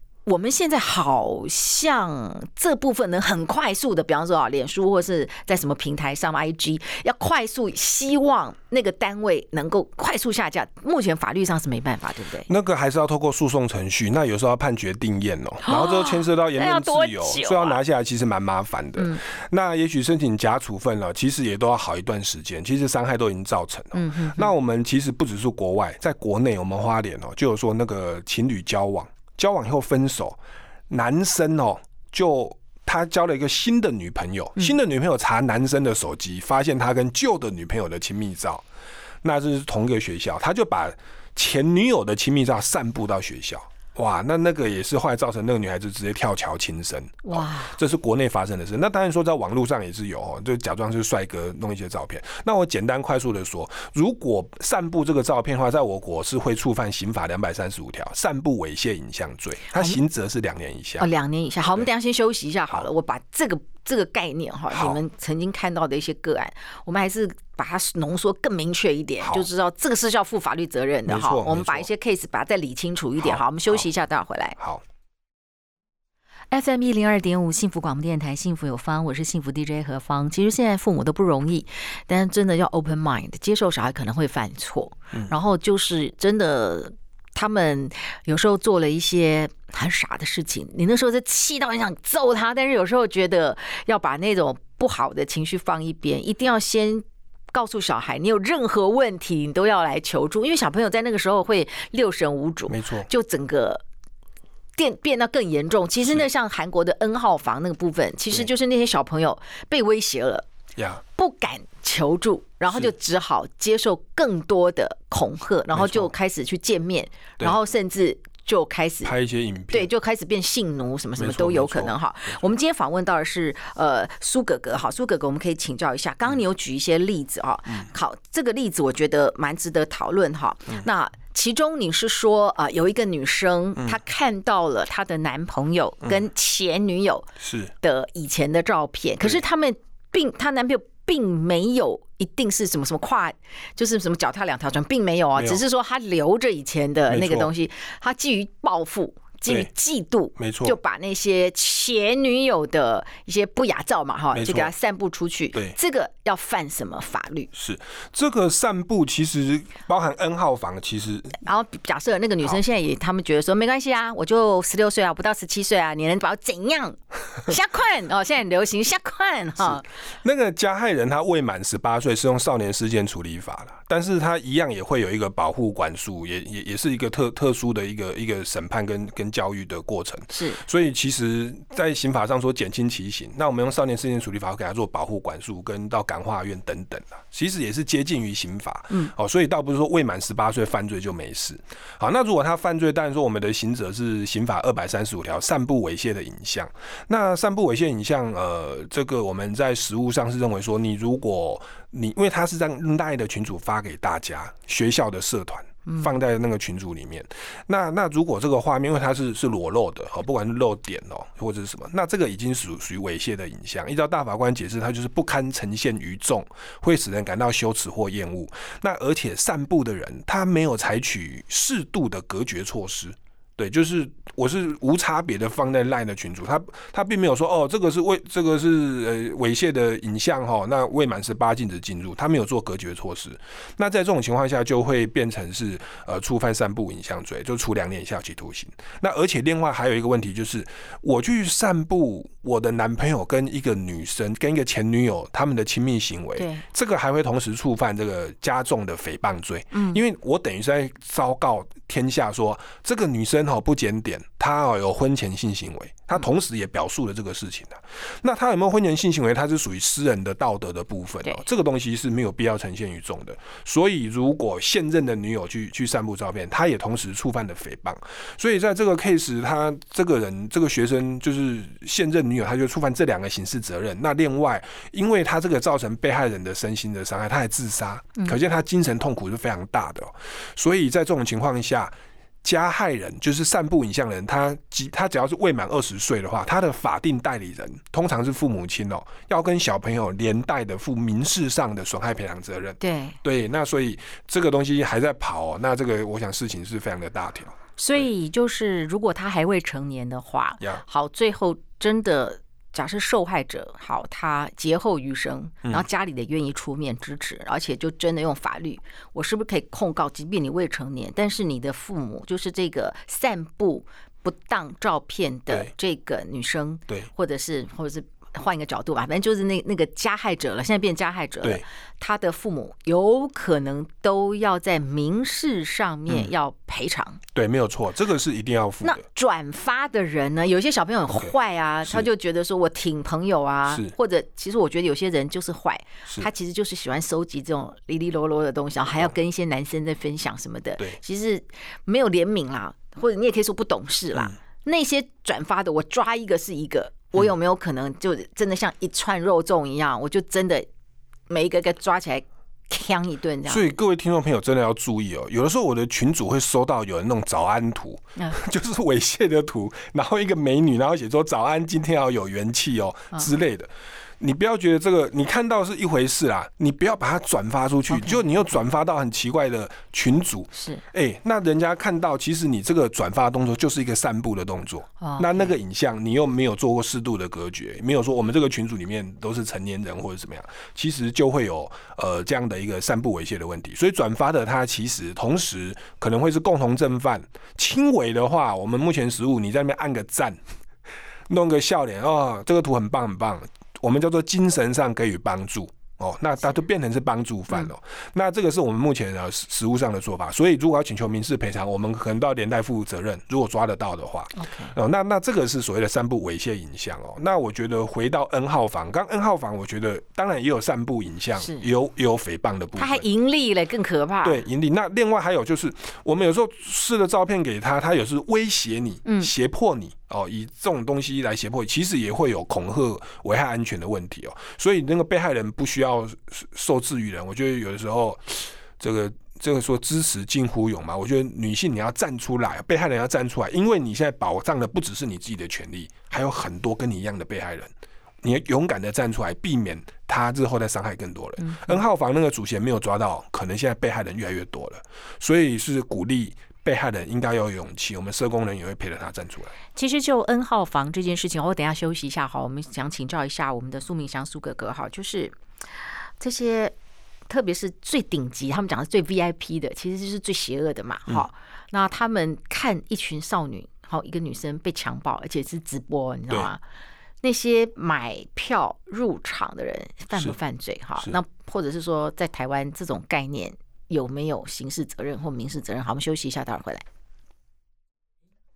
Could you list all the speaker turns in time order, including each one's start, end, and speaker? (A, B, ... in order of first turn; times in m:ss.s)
0:00.2-0:12.5 A
0:12.5-0:38.6 B
0:15.6-0:17.8 A
0:23.9-0:24.5 A
0:39.2-1:01.1 B
0:47.2-0:47.8 A
0:59.7-1:00.0 A
1:01.0-1:14.6 A
1:04.7-1:05.0 B
1:09.2-1:09.5 B
1:11.1-1:11.9 B
1:13.2-1:13.8 B
1:16.5-1:43.8 A
1:42.7-1:43.1 B
1:44.8-1:50.4 A
1:50.8-1:51.0 B
1:51.2-1:59.1 A
1:55.7-1:56.1 B
1:59.0-1:59.9 B
1:59.7-2:17.3 A
2:01.2-2:02.5 B
2:17.4-2:17.7 B
2:17.8-2:37.5 A
2:25.4-2:25.6 B
2:27.1-2:27.5 B
2:30.4-2:30.8 B
2:34.3-2:34.7 B
2:37.5-2:41.4 B
2:41.4-2:49.9 A
2:50.2-4:58.0 B
3:00.3-3:00.6 A
4:06.4-4:06.6 A
4:09.7-4:10.0 A
4:52.8-4:53.2 A
4:57.8-5:27.2 A
5:27.4-5:29.0 B
5:28.8-5:50.7 A
5:33.7-5:33.9 B
5:51.3-5:53.7 A
5:53.5-6:30.4 B
6:07.9-6:08.4 A
6:10.5-6:10.8 A
6:15.0-6:15.5 A
6:31.3-6:53.0 B
6:44.4-6:44.8 A
6:51.4-6:51.6 A
6:52.8-6:54.4 A
6:54.2-7:29.5 B
6:59.0-6:59.3 A
7:21.4-7:21.8 A
7:29.8-7:35.4 A
7:36.2-7:36.7 A
7:37.3-7:46.6 A
7:47.2-7:56.8 A